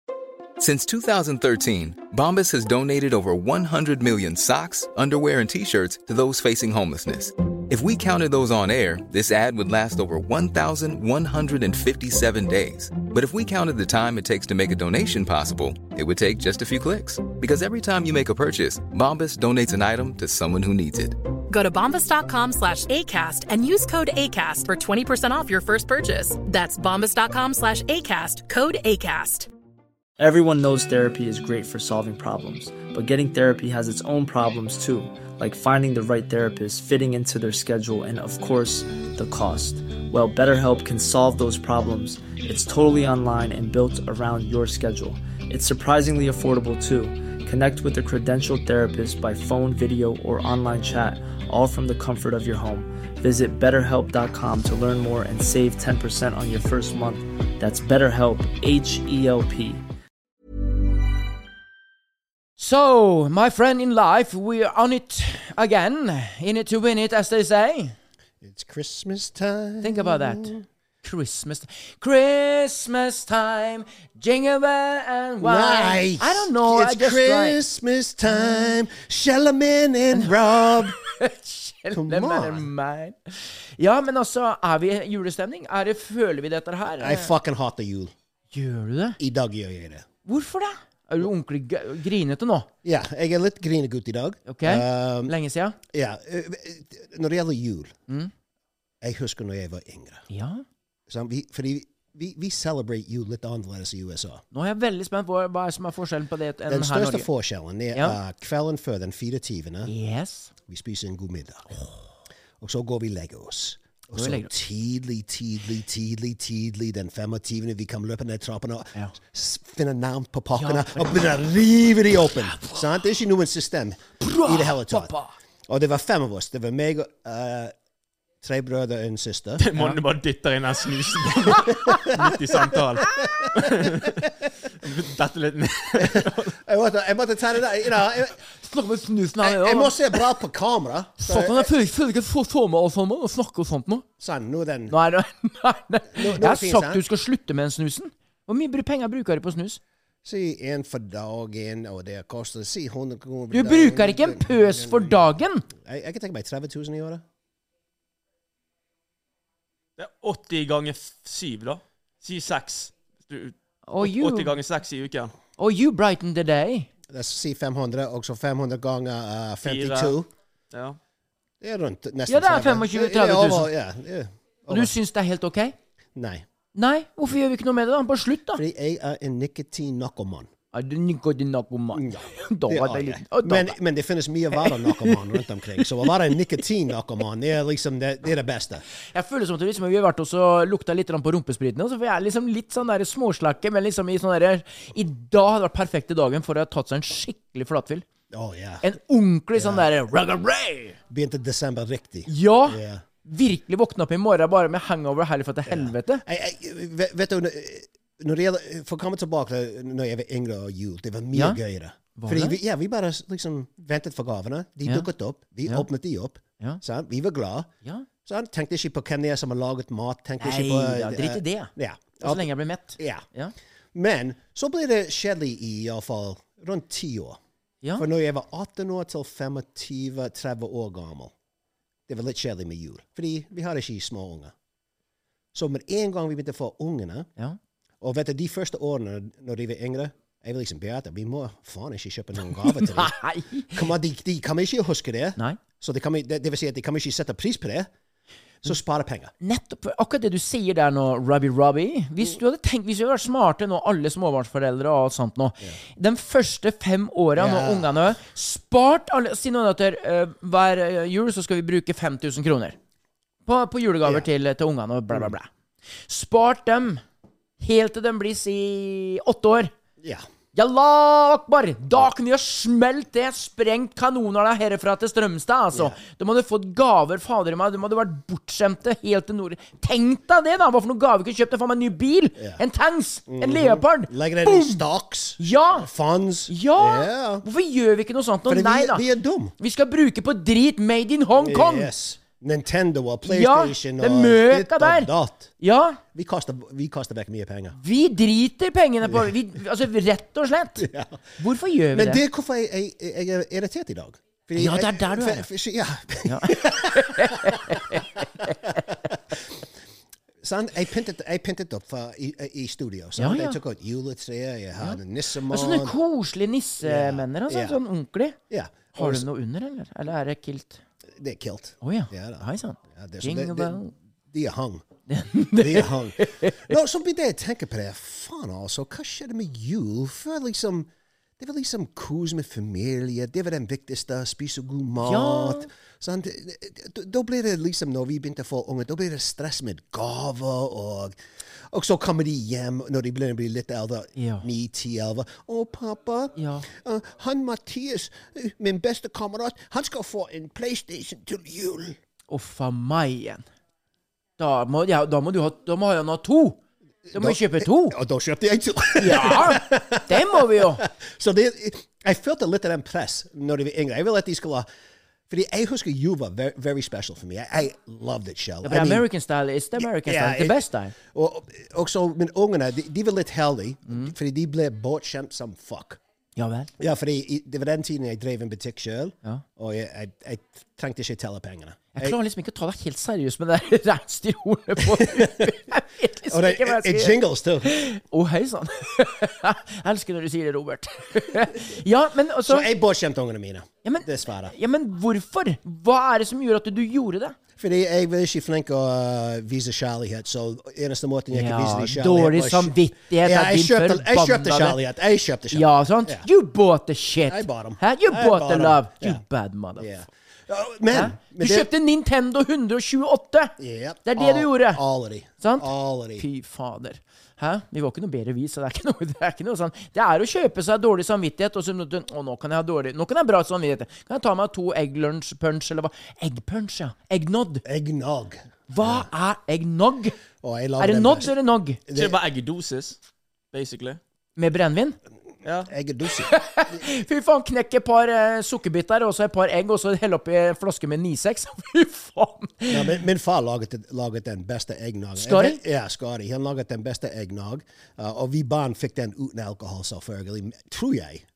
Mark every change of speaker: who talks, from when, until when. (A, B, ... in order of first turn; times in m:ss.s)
0:00.6-0:21.2 A
0:21.5-0:29.5 B
0:30.2-0:59.8 C
1:02.6-1:07.9 D
1:08.4-1:10.6 E
1:09.8-1:17.6 D
1:15.4-1:21.0 E
1:18.3-1:18.7 D
1:20.1-1:27.3 D
1:21.9-1:22.7 E
1:27.0-1:28.1 E
1:28.5-1:29.2 D
1:29.2-1:30.1 E
1:30.2-1:32.7 D
1:32.8-1:35.3 E
1:34.5-1:35.8 D
1:35.9-1:37.9 E
1:39.0-1:40.2 E
1:40.3-1:40.6 D
1:41.1-1:44.4 E
1:44.5-1:47.3 D
1:46.7-1:49.9 E
1:49.9-1:50.5 D
1:50.7-1:51.8 E
1:52.6-2:05.1 E
1:54.1-1:54.5 D
2:00.6-2:01.4 D
2:02.2-2:03.0 D
2:04.2-2:05.4 D
2:05.7-2:07.7 E
2:08.4-2:09.6 E
2:09.6-2:14.3 F
2:11.6-2:12.0 D
2:11.9-2:12.3 E
2:13.2-2:14.1 E
2:14.8-2:16.5 F
2:16.0-2:18.4 E
2:18.5-2:20.2 D
2:19.4-2:21.8 E
2:21.2-2:24.1 D
2:24.2-2:25.0 E
2:24.9-2:29.8 D
2:26.1-2:27.0 E
2:30.2-2:37.2 E
2:33.5-2:35.7 D
2:40.0-2:45.3 F
2:43.9-2:44.6 D
2:45.6-2:46.9 D
2:47.1-2:50.3 E
2:49.7-2:50.2 F
2:50.7-2:51.0 F
2:51.6-2:54.9 E
2:52.3-2:53.7 D
2:54.7-2:55.8 D
2:56.2-2:56.5 E
2:56.7-2:58.6 D
2:58.5-3:00.5 E
3:00.7-3:03.8 D
3:01.9-3:08.8 E
3:04.6-3:06.2 D
3:09.1-3:18.0 D
3:18.3-3:18.8 E
3:18.8-3:21.0 D
3:19.6-3:19.9 E
3:21.1-3:23.0 E
3:22.3-3:26.2 D
3:25.7-3:37.7 E
3:31.3-3:31.6 D
3:32.2-3:32.6 D
3:38.2-3:43.2 E
3:40.4-3:43.5 D
3:43.9-3:47.4 E
3:48.0-3:51.3 E
3:52.1-3:54.5 E
3:55.5-3:57.3 E
3:58.0-4:03.1 E
4:02.5-4:03.8 D
4:03.7-4:07.9 E
4:08.6-4:09.3 E
4:09.4-4:22.8 D
4:17.4-4:18.1 E
4:23.5-4:25.5 D
4:26.1-4:27.0 D
4:27.6-4:29.7 D
4:30.6-4:44.8 D
4:42.4-4:42.6 E
4:43.3-4:47.4 E
4:45.4-4:45.9 D
4:46.5-4:49.0 D
4:48.5-4:49.5 E
4:49.6-4:51.9 D
4:51.4-4:55.5 E
4:53.2-4:56.0 D
4:56.1-4:57.8 E
4:57.8-5:02.2 D
4:59.0-4:59.3 E
5:00.8-5:01.2 E
5:01.9-5:09.4 E
5:04.6-5:05.5 D
5:06.2-5:08.8 D
5:10.4-5:16.0 E
5:13.2-5:13.6 D
5:14.8-5:18.4 D
5:16.8-5:17.8 E
5:18.5-5:19.3 E
5:19.0-5:20.8 D
5:21.2-5:24.8 E
5:21.8-5:23.9 D
5:25.1-5:26.7 D
5:25.6-5:41.2 E
5:35.0-5:35.7 D
5:41.7-5:52.0 E
5:44.2-5:44.4 D
5:46.4-5:46.7 D
5:52.3-5:53.4 D
5:54.4-5:56.6 D
5:57.1-6:04.7 E
5:57.1-5:58.0 D
5:59.0-6:00.8 D
6:05.3-6:09.1 E
6:08.6-6:11.0 D
6:09.8-6:16.0 E
6:13.9-6:14.1 D
6:16.4-6:16.7 D
6:16.8-6:22.2 E
6:22.0-6:32.7 D
6:24.8-6:25.6 E
6:26.3-6:27.7 E
6:32.4-6:34.5 E
6:33.8-6:37.4 D
6:37.6-6:46.3 E
6:41.3-6:44.8 D
6:45.5-6:49.9 D
6:47.3-6:49.2 E
6:49.8-6:51.7 E
6:50.9-6:53.5 D
6:53.6-6:56.2 E
6:54.1-6:54.8 D
6:55.4-7:07.6 D
7:07.6-7:09.1 E
7:08.7-7:10.2 D
7:10.4-7:11.3 E
7:10.8-7:11.8 D
7:11.9-7:12.2 E
7:11.9-7:13.0 F
7:13.5-7:14.0 F
7:14.4-7:15.0 D
7:15.7-7:16.8 E
7:16.3-7:23.0 D
7:22.7-7:31.3 E
7:25.2-7:25.6 D